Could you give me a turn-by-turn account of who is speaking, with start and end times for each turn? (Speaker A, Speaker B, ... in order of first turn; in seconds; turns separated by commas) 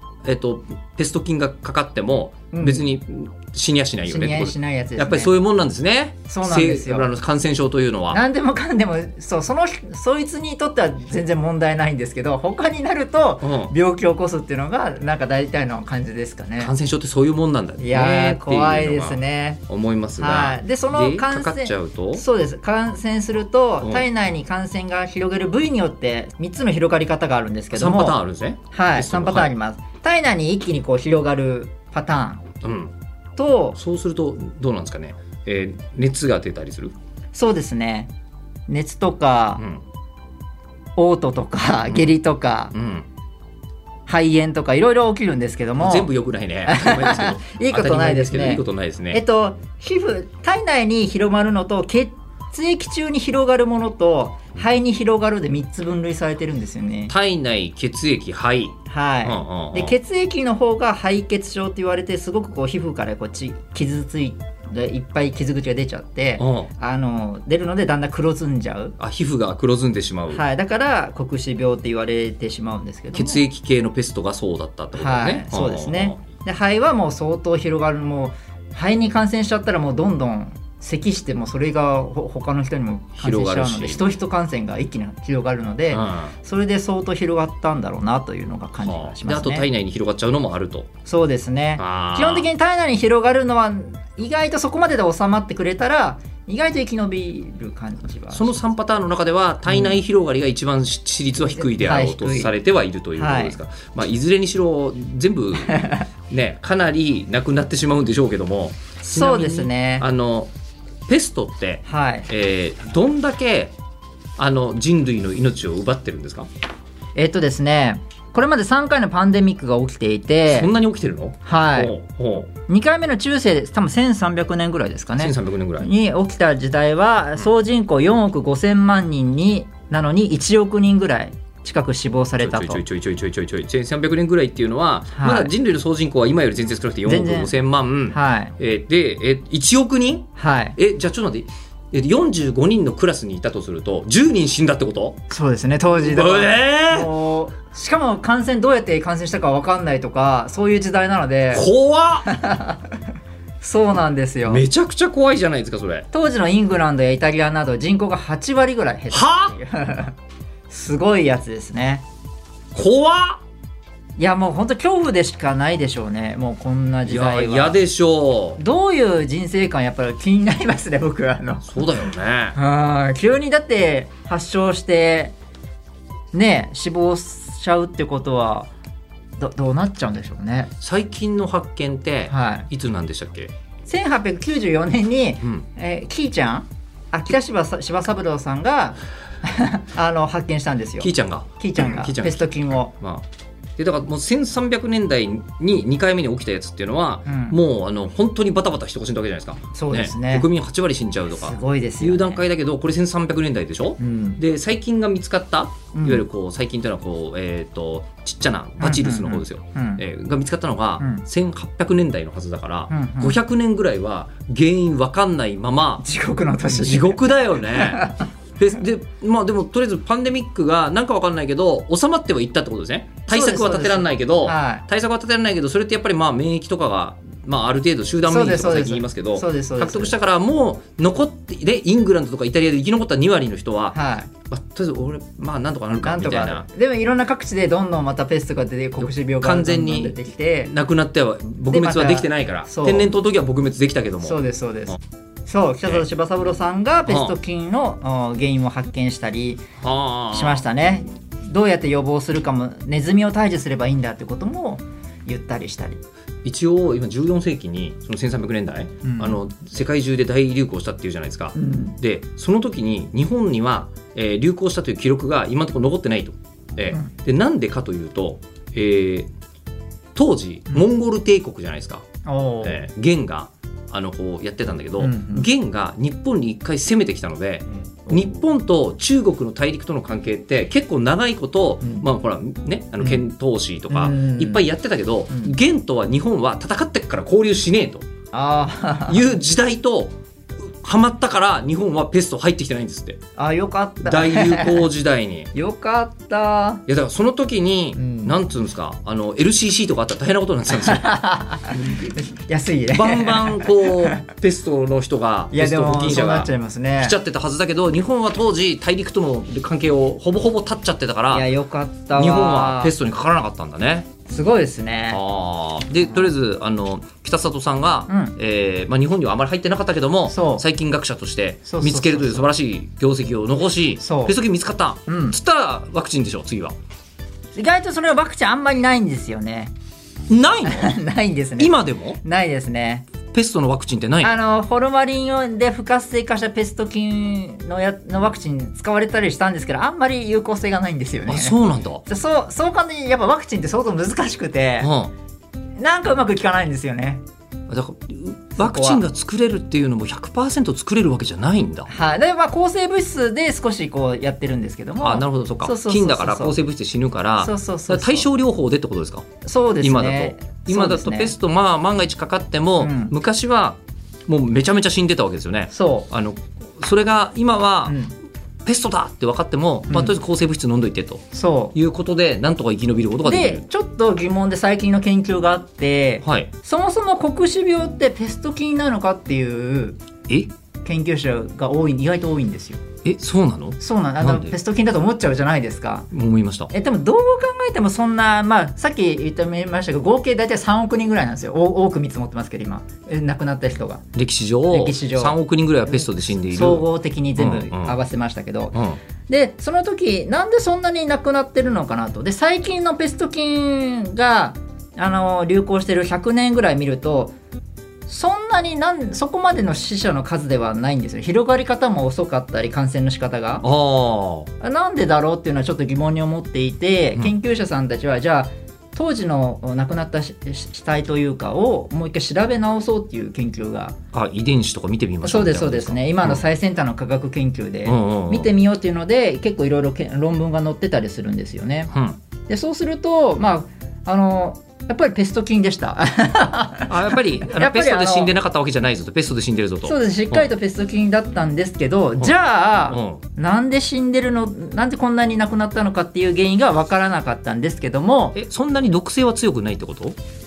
Speaker A: 0.2-8.2, Speaker B: 2.5-2.9, Speaker B: 4.0-5.3, Speaker B: 6.3-7.1, Speaker B: 8.1-16.7, Speaker A: 13.4-13.7, Speaker A: 16.6-22.2, Speaker B: 17.8-19.6, Speaker B: 20.2-28.2, Speaker A: 27.7-29.5, Speaker B: 28.7-32.5, Speaker A: 32.6-32.9, Speaker B: 33.4-33.8, Speaker A: 33.8-36.9, Speaker B: 37.3-38.1, Speaker B: 38.7-39.6, Speaker B: 41.0-42.7, Speaker A: 41.9-42.1, Speaker A: 42.7-43.1, Speaker B: 44.1-46.1, Speaker A: 45.8-49.2, Speaker B: 46.6-57.1, Speaker A: 57.1-59.9, Speaker B: 58.9-69.0, Speaker A: 66.4-66.7, Speaker A: 69.0-70.4, Speaker B: 70.3-73.4, Speaker A: 73.1-76.2, Speaker B: 74.9-89.7, Speaker A: 83.2-84.2, Speaker A: 85.9-86.3, Speaker A: 88.8-90.9, Speaker B: 91.0-98.6, Speaker A: 91.8-92.5, Speaker A: 98.3-110.5, Speaker B: 99.7-100.0, Speaker B: 101.4-102.5, Speaker B: 103.2-103.6, Speaker B: 105.7-106.0, Speaker B: 109.0-110.0, Speaker A: 111.1-113.7, Speaker B: 111.8-112.3, Speaker A: 114.4-116.5, Speaker B: 117.1-120.7, Speaker A: 120.5-122.5, Speaker B: 121.4-121.9, Speaker B: 122.7-132.8, Speaker A: 125.2-125.9, Speaker A: 132.4-145.2, Speaker B: 135.1-135.5, Speaker B: 137.1-137.5, Speaker B: 138.1-138.5, Speaker B: 140.4-140.8, Speaker B: 145.3-151.7, Speaker A: 146.0-147.1, Speaker A: 151.5-152.3, Speaker B: 152.2-152.9, Speaker B: 153.6-154.6, Speaker A: 154.4-156.1, Speaker B: 156.1-160.1, Speaker A: 159.1-159.5, Speaker B: 160.7-162.0, Speaker A: 162.7-163.4, Speaker B: 164.2-167.8, Speaker A: 167.0-168.6, Speaker B: 168.6-171.9, Speaker A: 171.7-172.6, Speaker B: 172.5-175.3, Speaker B: 176.3-178.7, Speaker B: 179.4-180.7, Speaker A: 180.8-183.5, Speaker B: 182.3-182.7, Speaker B: 183.9-192.9, Speaker A: 191.0-193.2, Speaker A: 193.8-216.0, Speaker B: 197.2-197.6, Speaker B: 199.7-200.5, Speaker B: 201.3-202.4, Speaker B: 204.0-204.4, Speaker B: 205.9-206.2, Speaker B: 208.8-210.0, Speaker B: 211.0-211.2, Speaker B: 212.9-213.4, Speaker B: 216.0-218.3, Speaker A: 216.7-234.0, Speaker B: 223.3-224.8, Speaker B: 228.2-230.1, Speaker B: 233.9-234.3, Speaker A: 234.5-236.7, Speaker B: 236.0-240.7, Speaker A: 239.0-240.1, Speaker A: 240.7-244.4, Speaker B: 241.7-243.1, Speaker B: 244.2-249.6, Speaker A: 247.1-247.3, Speaker A: 249.8-250.6, Speaker B: 250.3-256.0, Speaker A: 256.4-269.3, Speaker B: 259.0-259.4, Speaker B: 261.5-261.9, Speaker A: 270.1-272.0, Speaker B: 272.2-272.8, Speaker A: 272.6-288.1, Speaker B: 275.0-275.5, Speaker B: 283.9-284.6, Speaker B: 285.3-285.5, Speaker B: 288.3-289.2, Speaker A: 289.1-293.2, Speaker B: 293.4-294.9, Speaker A: 294.0-295.5, Speaker B: 295.5-296.8, Speaker A: 296.9-301.1, Speaker B: 297.9-298.4, Speaker B: 300.7-304.2, Speaker A: 302.9-311.5, Speaker B: 305.5-307.1, Speaker B: 311.3-312.9, Speaker A: 312.1-314.1, Speaker B: 314.2-315.2, Speaker A: 315.1-326.7, Speaker B: 318.1-318.3, Speaker B: 320.3-320.6, Speaker B: 321.6-322.5, Speaker B: 324.0-324.4, Speaker B: 325.1-325.4, Speaker B: 327.5-329.7, Speaker A: 330.3-331.0, Speaker B: 330.6-333.1, Speaker A: 331.6-332.2, Speaker A: 333.3-334.3, Speaker B: 334.2-344.9, Speaker A: 341.3-342.0, Speaker A: 344.8-345.1, Speaker B: 345.8-347.2, Speaker A: 347.7-351.9, Speaker B: 348.6-349.0, Speaker B: 351.9-356.6, Speaker A: 355.0-359.2, Speaker B: 357.4-358.3, Speaker B: 359.4-361.3, Speaker A: 359.8-368.0, Speaker B: 362.8-363.1, Speaker B: 365.7-366.1, Speaker B: 367.9-368.1, Speaker A: 368.6-371.2, Speaker B: 369.9-370.1, Speaker B: 371.3-371.7, Speaker A: 371.7-373.6, Speaker B: 373.2-380.0, Speaker A: 376.2-376.5, Speaker B: 380.8-382.8, Speaker A: 383.0-384.5, Speaker B: 383.8-386.1, Speaker A: 386.1-386.7, Speaker B: 386.7-394.0, Speaker A: 394.1-396.8, Speaker B: 394.7-398.8, Speaker A: 397.4-398.0, Speaker B: 399.3-407.3, Speaker B: 408.1-413.6, Speaker A: 413.6-414.5, Speaker B: 414.6-423.9, Speaker A: 424.1-426.4, Speaker B: 425.2-431.9, Speaker A: 427.9-428.5, Speaker A: 431.9-432.2, Speaker B: 432.5-438.3, Speaker A: 436.9-440.5, Speaker B: 439.8-448.4, Speaker A: 442.9-443.2, Speaker A: 448.3-450.2